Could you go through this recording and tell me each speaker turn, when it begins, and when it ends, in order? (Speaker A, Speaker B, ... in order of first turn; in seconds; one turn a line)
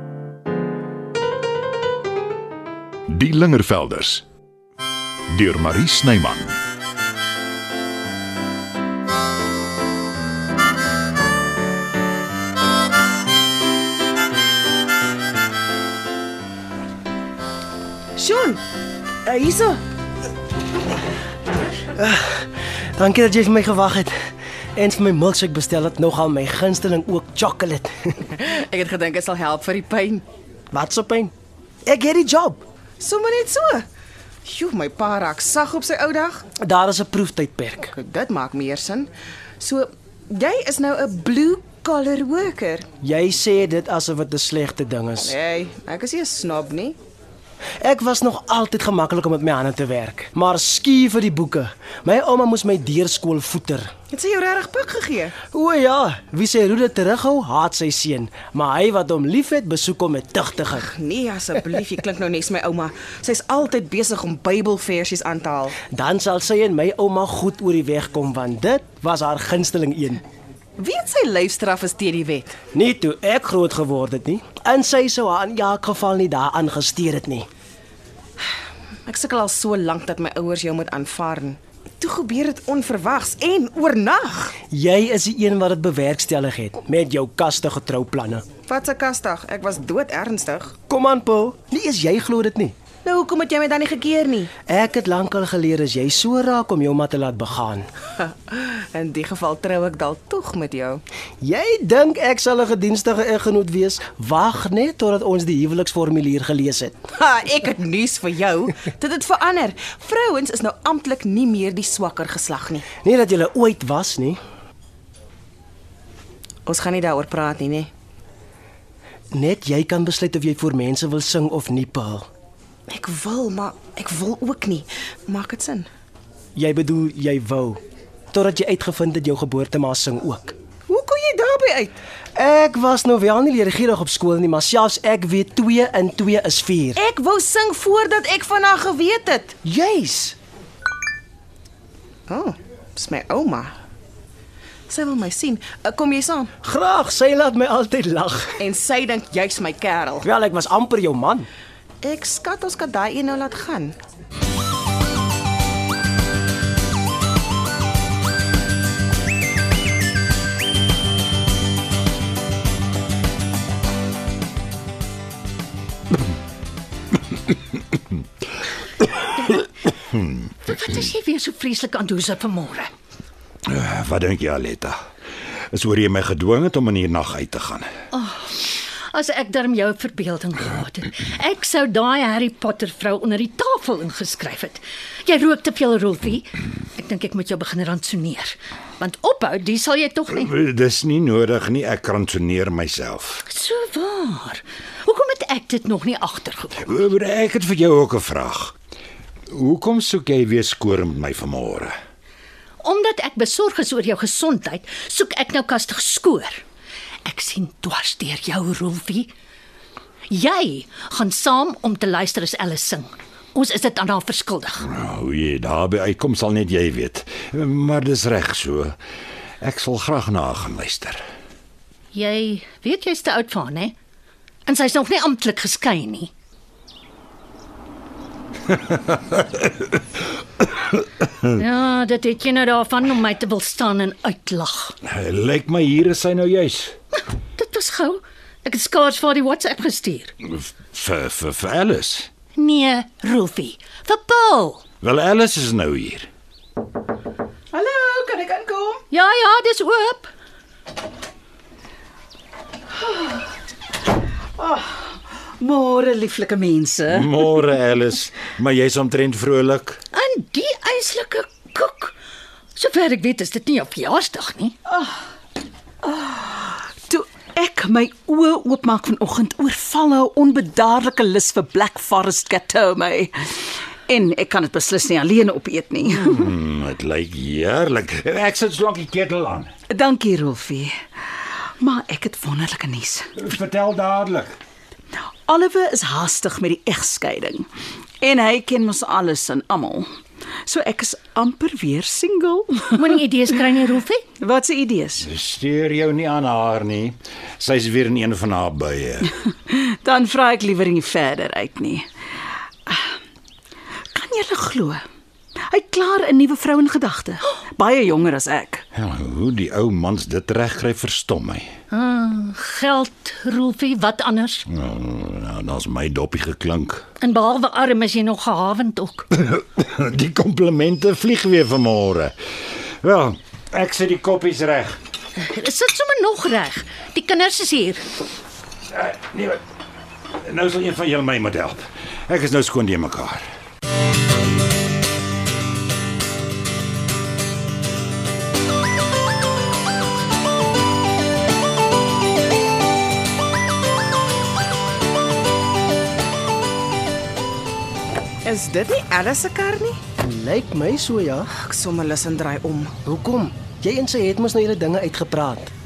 Speaker A: 3.1-4.2
Speaker A: 5.3-6.5
Speaker B: 18.2-18.6
Speaker B: 19.2-19.8
Speaker C: 21.9-24.1
Speaker C: 24.8-28.2
Speaker B: 28.3-30.2
Speaker C: 30.7-31.3
Speaker C: 31.9-32.6
Speaker B: 33.0-33.9
Speaker B: 34.5-36.5
Speaker C: 36.6-37.9
Speaker B: 37.9-39.1
Speaker B: 39.6-42.9
Speaker C: 43.0-45.4
Speaker B: 45.2-47.0
Speaker C: 47.8-53.9
Speaker B: 54.1-55.4
Speaker C: 55.4-60.9
Speaker B: 60.9-65.8
Speaker C: 65.8-70.2
Speaker B: 70.8-72.6
Speaker C: 72.7-77.5
Speaker B: 79.1-84.5
Speaker C: 84.7-88.5
Speaker B: 88.7-90.8
Speaker C: 90.9-92.7
Speaker B: 93.0-94.5
Speaker C: 94.7-97.8
Speaker B: 98.2-101.0
Speaker C: 101.4-107.0
Speaker B: 107.2-112.9
Speaker C: 112.9-114.4
Speaker B: 116.7-117.9
Speaker C: 119.3-122.3
Speaker B: 122.9-125.9
Speaker C: 126.6-127.8
Speaker C: 128.3-130.6
Speaker B: 130.9-131.9
Speaker C: 132.4-137.0
Speaker B: 137.0-139.6
Speaker C: 139.6-140.4
Speaker B: 142.3-143.7
Speaker B: 144.9-146.5
Speaker C: 146.6-148.6
Speaker B: 148.6-150.3
Speaker C: 150.2-151.5
Speaker B: 152.0-153.9
Speaker D: 170.7-172.9
Speaker E: 173.7-175.0
Speaker E: 175.7-177.9
Speaker D: 178.1-190.5
Speaker E: 190.3-193.4
Speaker D: 193.5-196.8
Speaker E: 196.8-198.7
Speaker E: 199.5-201.9
Speaker D: 202.8-206.6
Speaker D: 207.3-209.3
Speaker D: 210.3-214.8
Speaker E: 214.9-219.0
Speaker E: 219.6-221.2
Speaker D: 222.1-223.9
Speaker D: 224.7-226.3
Speaker D: 231.4-234.9
Speaker E: 235.1-236.9
Speaker D: 237.6-240.3
Speaker E: 240.4-242.3
Speaker D: 242.6-244.8
Speaker E: 245.0-246.3
Speaker F: 247.7-249.0
Speaker D: 249.1-250.3
Speaker F: 254.6-257.5
Speaker E: 257.1-260.0
Speaker D: 260.1-262.1
Speaker D: 262.8-264.8
Speaker F: 264.9-265.2
Speaker F: 266.1-273.4
Speaker F: 274.1-276.5
Speaker E: 276.2-279.7
Speaker F: 279.9-280.9
Speaker F: 281.8-283.3
Speaker E: 283.4-284.5
Speaker F: 285.5-287.7
Speaker F: 288.2-290.1
Speaker F: 290.7-293.2
Speaker D: 292.9-294.2
Speaker F: 294.4-295.3
Speaker E: 295.2-299.3
Speaker F: 299.7-302.1
Speaker F: 304.1-305.0
Speaker F: 305.7-308.8
Speaker E: 308.9-311.7
Speaker D: 311.9-314.6
Speaker E: 314.7-317.0
Speaker D: 317.2-319.3
Speaker E: 319.3-325.0
Speaker D: 325.4-328.1
Speaker E: 328.9-329.6
Speaker E: 330.4-333.4
Speaker B: 348.4-350.0
Speaker C: 350.2-351.5
Speaker B: 351.5-352.9
Speaker C: 353.0-355.7